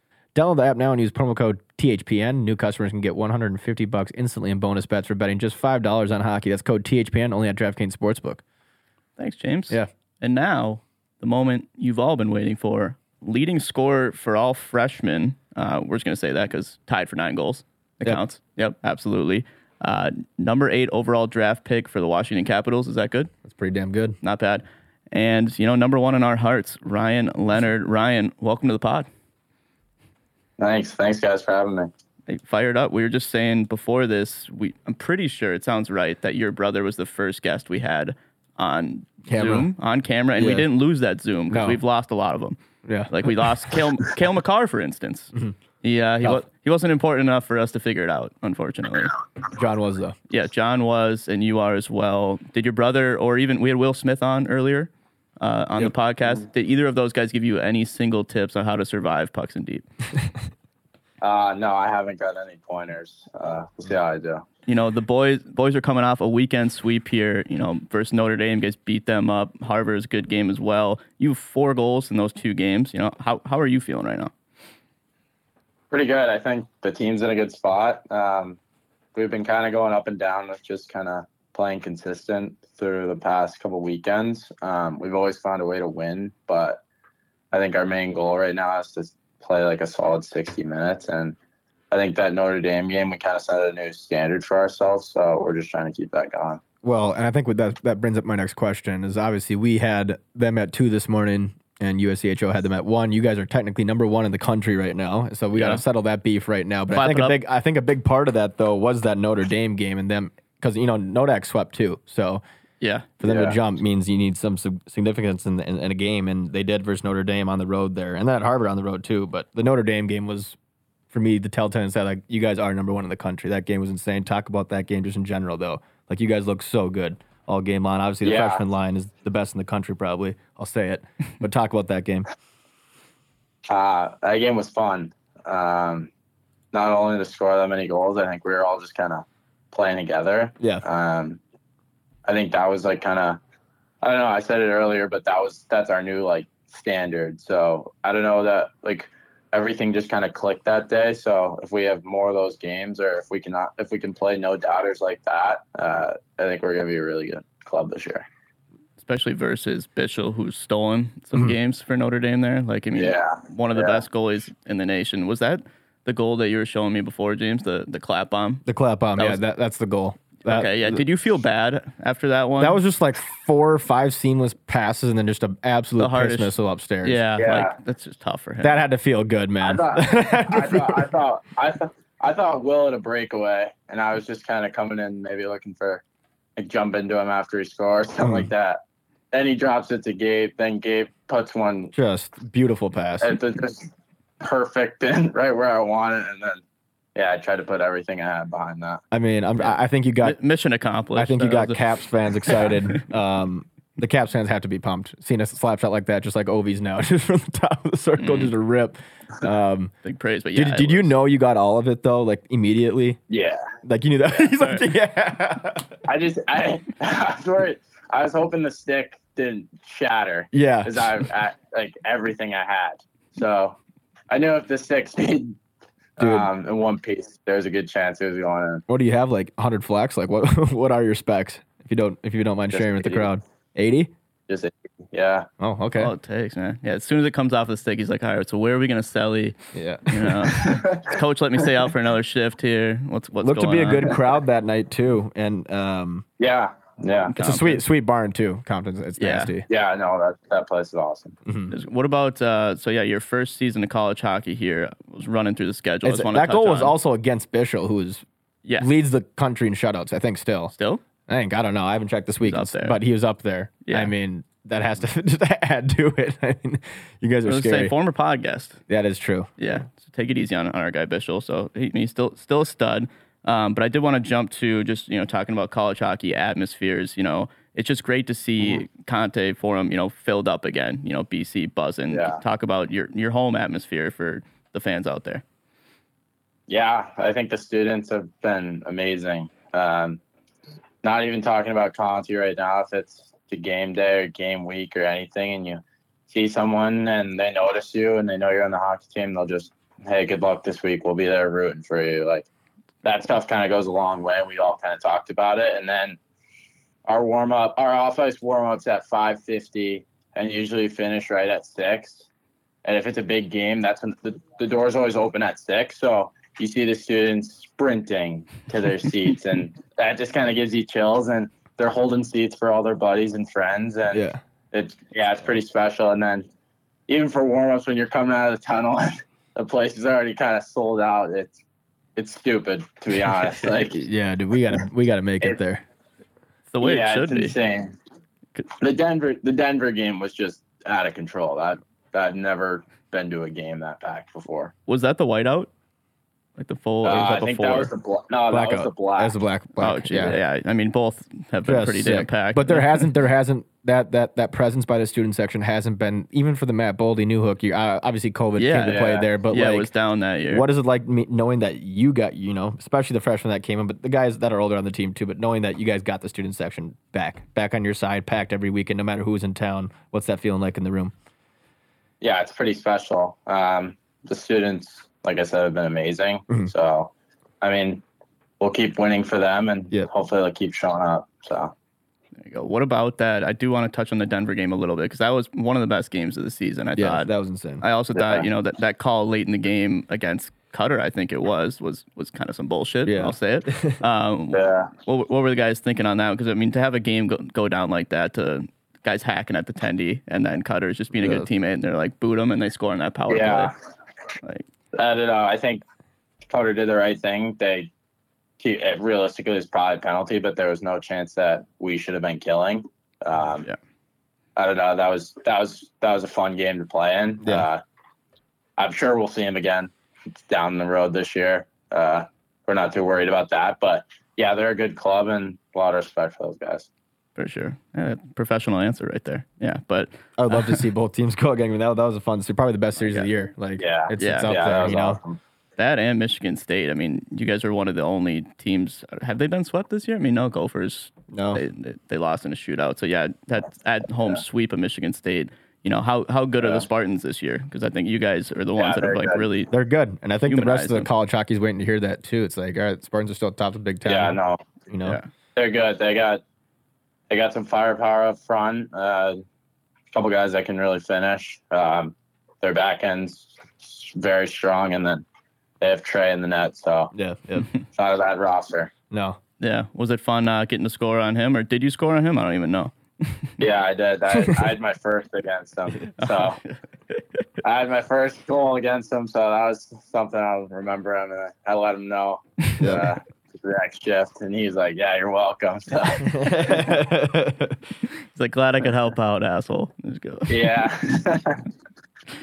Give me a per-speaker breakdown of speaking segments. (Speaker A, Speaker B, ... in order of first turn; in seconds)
Speaker A: 0.3-8.4, 23.4-24.2, 39.3-39.7, 40.4-40.7, 41.5-41.8, 42.8-43.1, 49.5-50.1, 96.8-112.4, 113.2-120.5, 121.1-132.2, 168.6-171.0, 172.6-177.2, 178.6-181.1, 188.2-188.5, 191.9-193.4, 199.1-200.4, 201.1-209.9, 210.5-213.2, 213.8-215.9, 220.5-221.2, 226.2-226.5, 228.9-234.1, 235.6-236.1, 239.7-240.3, 243.4-246.2, 247.4-249.7, 251.4-251.7, 256.0-258.2, 258.8-260.7, 261.3-267.9, 268.9-269.5, 324.1-324.4, 333.8-335.8, 348.5-350.4, 351.6-359.9, 360.5-371.1, 387.0-387.8, 393.0-394.0, 401.1-401.5, 417.4-417.7, 430.4-435.2, 441.3-441.6, 449.7-454.4, 454.9-455.2, 467.1-467.7, 469.1-469.4, 482.8-483.1, 486.3-487.8
Speaker B: 9.2-23.3, 24.2-29.1, 32.3-42.6, 43.1-49.1, 50.3-59.8, 64.7-74.3, 105.5-105.8, 106.9-107.4, 112.8-113.1, 159.0-168.6, 169.2-169.4, 170.4-172.8, 176.0-178.8, 200.2-201.8, 208.2-208.5, 210.0-211.1, 235.9-244.2, 247.3-247.8, 249.2-249.5, 251.7-256.9, 260.7-261.0, 262.4-263.0, 263.8-264.1, 267.4-268.8, 269.6-285.4, 336.7-337.6, 344.9-345.7, 346.6-347.9, 349.8-353.1, 358.6-360.7, 382.4-387.3, 387.8-403.7, 427.4-430.8, 434.2-434.6, 435.8-449.7, 450.4-451.1, 469.6-473.5, 476.1-477.2, 488.3-490.7
Speaker C: 30.6-31.9, 61.2-64.5, 75.9-78.6, 79.1-86.8, 87.5-91.3, 91.9-96.6, 113.2-113.6, 128.2-128.6, 133.7-136.1, 136.7-141.4, 142.2-143.4, 144.0-158.2, 162.9-164.0, 177.4-177.7, 179.6-186.0, 186.6-188.8, 189.3-191.9, 193.2-193.9, 194.4-196.6, 197.1-199.0, 213.3-213.6, 216.1-223.8, 224.3-225.6, 226.2-228.8, 232.7-233.3, 234.5-235.5, 240.6-241.1, 246.4-247.3, 249.7-251.4, 282.1-282.4, 286.7-290.2, 291.0-302.5, 303.0-306.2, 307.1-312.3, 312.8-326.5, 327.1-331.6, 332.1-334.0, 336.8-337.9, 338.8-344.7, 347.0-349.3, 358.9-359.3, 372.2-378.0, 378.6-381.7, 388.1-388.5, 394.5-394.9, 403.3-403.7, 404.9-405.8, 406.5-407.9, 408.6-413.7, 414.6-417.8, 418.8-419.9, 420.5-426.9, 433.8-435.4, 446.6-446.9, 448.8-449.4, 454.0-454.6, 455.6-456.4, 457.3-459.4, 460.1-465.2, 465.8-467.1, 467.9-468.9, 473.6-476.6, 477.6-486.9, 490.5-491.6